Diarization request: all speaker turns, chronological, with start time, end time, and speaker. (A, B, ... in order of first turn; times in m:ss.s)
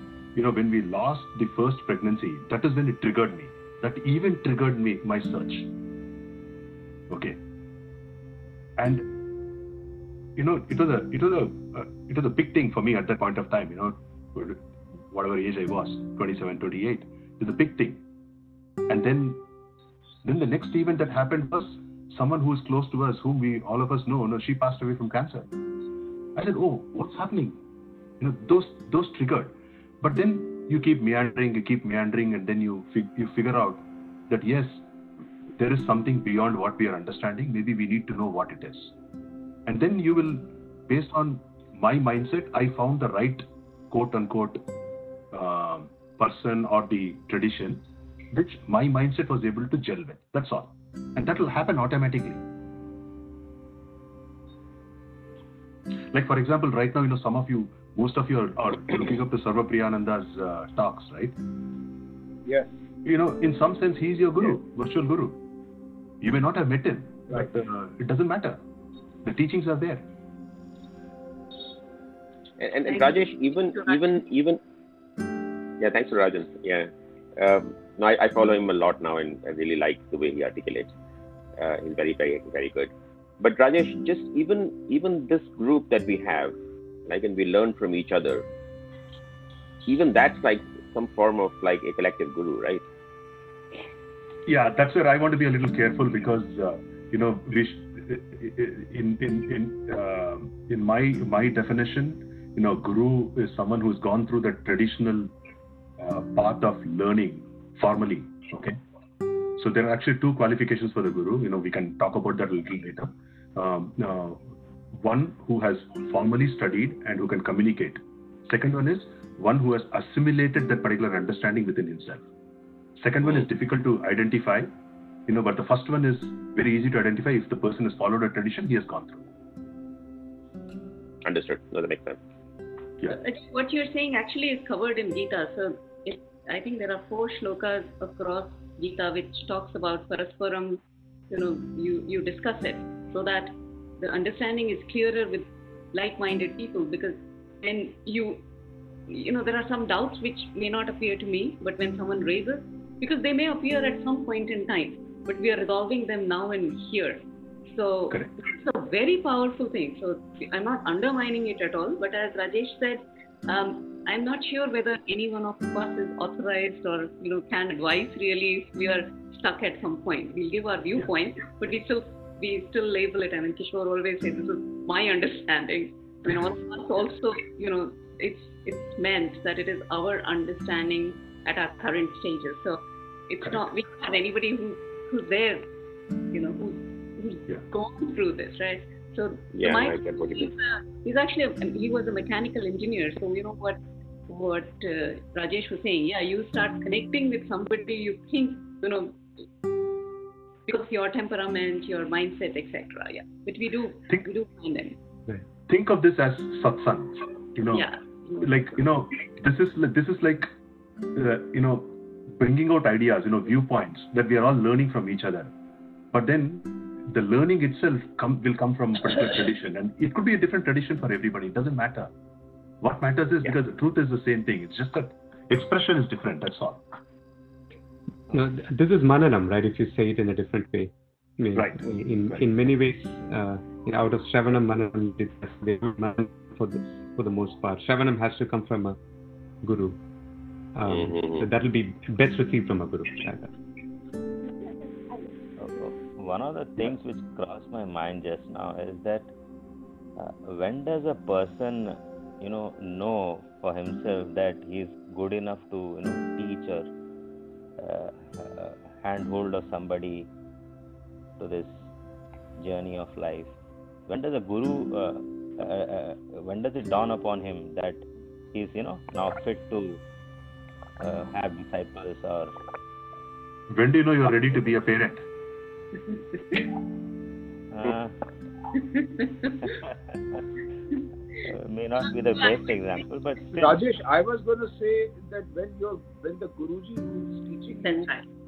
0:00.3-0:05.7 A
0:07.1-0:07.4 A
0:08.8-0:09.1 A
0:10.4-0:18.0 A
0:18.9-0:19.4 A
0:20.2-0:25.5 A
0:26.4-0:27.6 A
0:28.2-0:34.8 A
0:35.5-0:38.9 A
0:39.6-0:44.6 A
0:45.3-0:52.4 A
0:56.1-1:01.4 A
1:03.0-1:05.4 A
1:06.2-1:08.6 A
1:09.2-1:10.1 A
1:12.6-1:14.6 B
1:12.8-1:14.2 C
1:15.8-1:20.9 B
1:21.6-1:26.5 B
1:27.1-1:28.4 B
1:29.8-1:32.8 B
1:34.4-1:45.3 A
1:46.0-1:48.8 A
1:49.6-2:02.2 A
2:03.0-2:04.7 A
2:05.3-2:09.3 A
2:11.2-2:12.2 B
2:13.1-2:28.4 C
2:29.1-3:05.6 C
3:06.3-3:19.2 C
3:09.5-3:10.5 B
3:20.7-3:25.0 C
3:25.7-3:27.9 A
3:27.7-3:28.8 C
3:28.4-3:30.5 A
3:31.1-3:35.5 A
3:36.1-3:42.1 A
3:42.8-3:46.8 A
3:48.3-3:59.0 D
3:51.5-3:52.5 A
3:59.6-4:00.0 D
4:00.8-4:03.5 D
4:00.9-4:01.5 B
4:05.6-4:09.3 E
4:10.2-4:16.9 E
4:17.8-4:20.3 E
4:21.4-4:21.9 E
4:22.6-4:23.5 E
4:24.1-4:30.0 E
4:31.0-4:32.6 E
4:33.7-4:35.2 A
4:37.7-4:38.2 E
4:39.1-4:39.6 C
4:39.6-4:40.4 E
4:41.4-4:43.8 E
4:43.5-4:48.1 F
4:47.8-4:48.2 C